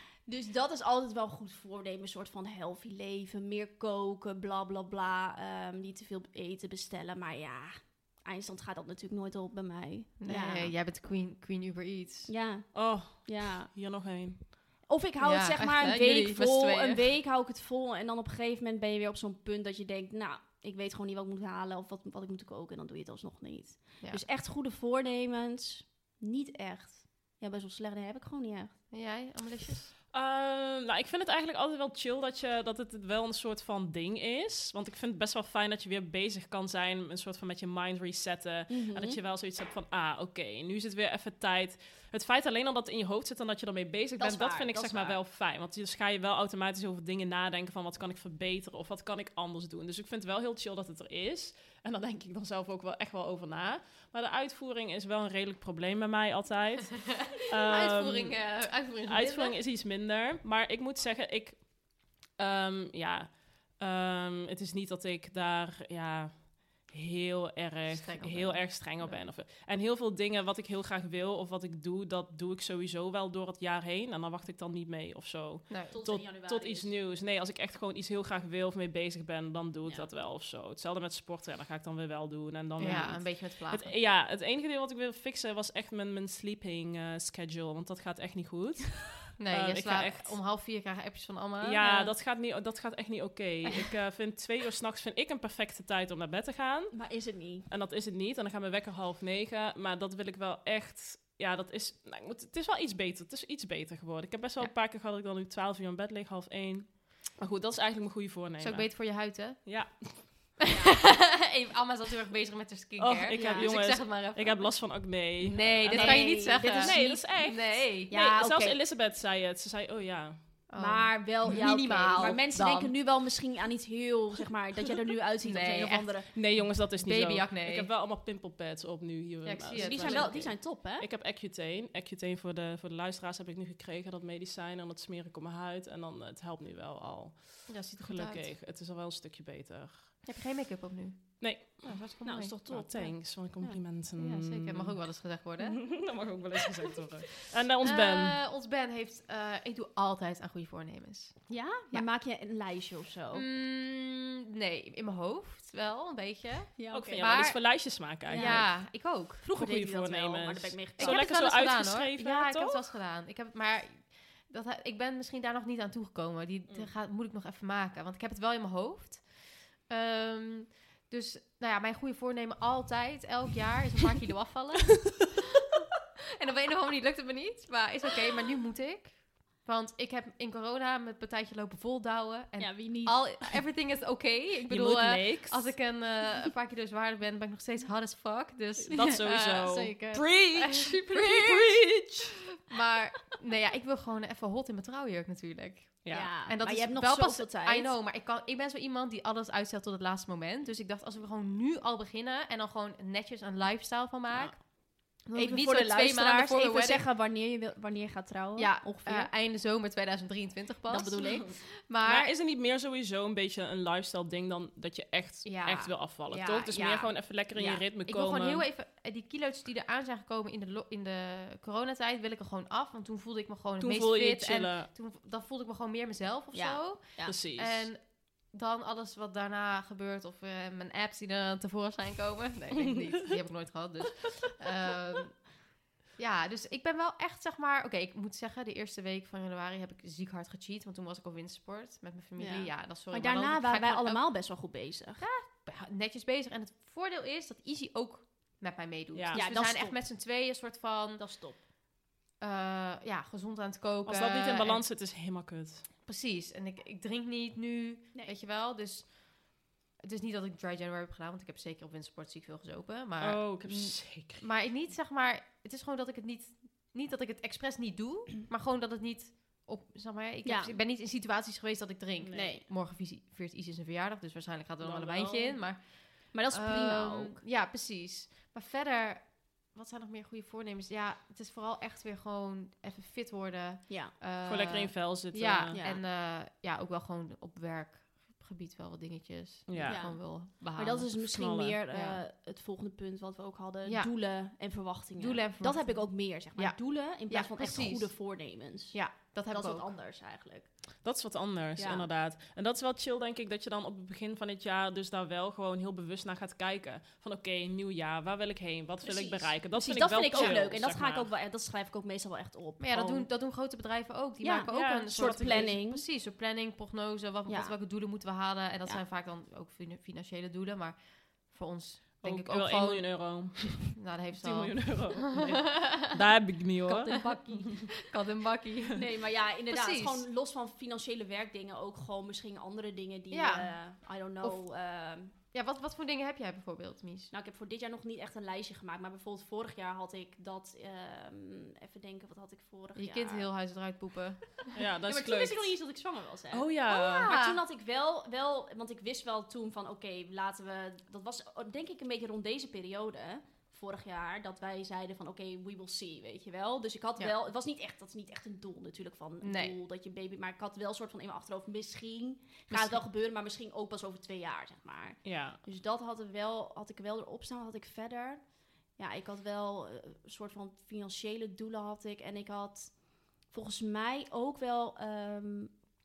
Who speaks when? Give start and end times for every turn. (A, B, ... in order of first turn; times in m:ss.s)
0:00.2-0:10.7 A
0:10.2-0:12.3 B
0:12.3-0:13.7 A
0:12.7-0:14.7 C
0:14.9-0:28.8 A
0:15.2-0:17.0 B
0:24.0-0:24.2 B
0:28.9-0:29.9 B
0:30.1-1:30.4 C
0:38.7-0:39.2 A
0:44.2-0:45.2 A
0:57.5-0:59.6 B
1:07.9-1:09.3 B
1:15.7-1:16.0 B
1:15.9-1:16.9 A
1:19.8-1:20.1 A
1:22.8-1:23.9 B
1:29.4-1:31.8 B
1:31.6-1:50.6 C
1:31.8-1:32.1 A
1:36.9-1:37.7 A
1:48.6-1:50.1 B
1:50.7-1:51.0 A
1:50.9-1:58.1 B
1:53.0-2:00.6 C
1:53.3-1:53.7 A
1:55.9-1:58.8 A
2:00.7-2:02.9 B
2:00.8-2:06.3 A
2:05.4-2:07.9 B
2:06.3-2:20.1 C
2:09.4-2:10.4 B
2:09.8-2:11.1 A
2:17.7-2:18.5 B
2:20.2-2:22.8 B
2:21.4-2:22.0 C
2:22.2-2:23.8 A
2:22.7-2:28.4 C
2:24.2-2:26.3 B
2:27.8-2:32.0 B
2:31.5-2:33.4 A
2:33.3-2:37.6 B
2:36.8-2:41.2 A
2:36.9-2:38.7 C
2:38.3-2:39.4 B
2:39.5-2:42.9 C
2:41.0-2:55.4 B
2:56.4-3:09.9 B
3:02.6-3:03.3 A
3:04.7-3:05.9 C
3:08.9-3:12.3 C
3:09.0-3:11.2 A
3:10.6-3:12.0 B
3:12.7-3:27.0 B
3:16.0-3:16.3 C
3:16.1-3:17.9 A
3:25.3-3:29.3 A
3:28.6-3:32.3 B
3:30.9-3:31.6 A
3:31.5-3:38.6 C
3:35.4-3:55.5 B
3:43.8-3:44.9 C
3:46.5-3:47.4 A
3:47.2-3:47.9 C
3:56.2-4:04.2 B
4:02.4-4:05.2 A
4:05.2-4:11.2 B
4:09.1-4:09.5 C
4:09.3-4:10.0 A
4:11.2-4:11.6 A
4:12.4-4:14.9 B
4:14.0-4:15.8 C
4:16.0-4:51.1 B
4:23.2-4:24.5 C
4:30.4-4:30.7 A
4:32.2-4:32.6 C
4:32.3-4:32.6 A
4:34.8-4:35.6 C
4:36.3-4:37.4 A
4:44.4-4:45.8 C
4:45.7-4:46.0 A
4:49.7-4:50.0 C
4:49.8-5:00.9 A
4:51.2-4:51.8 C
4:51.9-4:52.2 B
4:53.8-4:54.1 B
4:55.2-4:58.4 B
4:58.9-4:59.9 B
5:01.0-5:11.3 C
5:01.8-5:02.1 A
5:09.0-5:13.3 A
5:10.3-5:10.6 B
5:12.8-5:26.1 B
5:14.4-5:16.0 A
5:14.7-5:15.7 C
5:17.5-5:17.7 A
5:22.2-5:27.8 C
5:26.9-5:29.0 B
5:27.0-5:27.7 A
5:28.9-5:35.3 A
5:29.7-5:30.2 B
5:33.3-5:33.8 B
5:35.5-5:37.3 B
5:37.3-5:43.5 A
5:42.9-5:44.6 B
5:44.8-5:45.7 C
5:45.0-6:15.8 A
5:46.5-5:47.3 C
5:47.3-5:47.6 B
5:59.4-5:59.8 B
6:02.7-6:03.0 B
6:05.2-6:05.6 C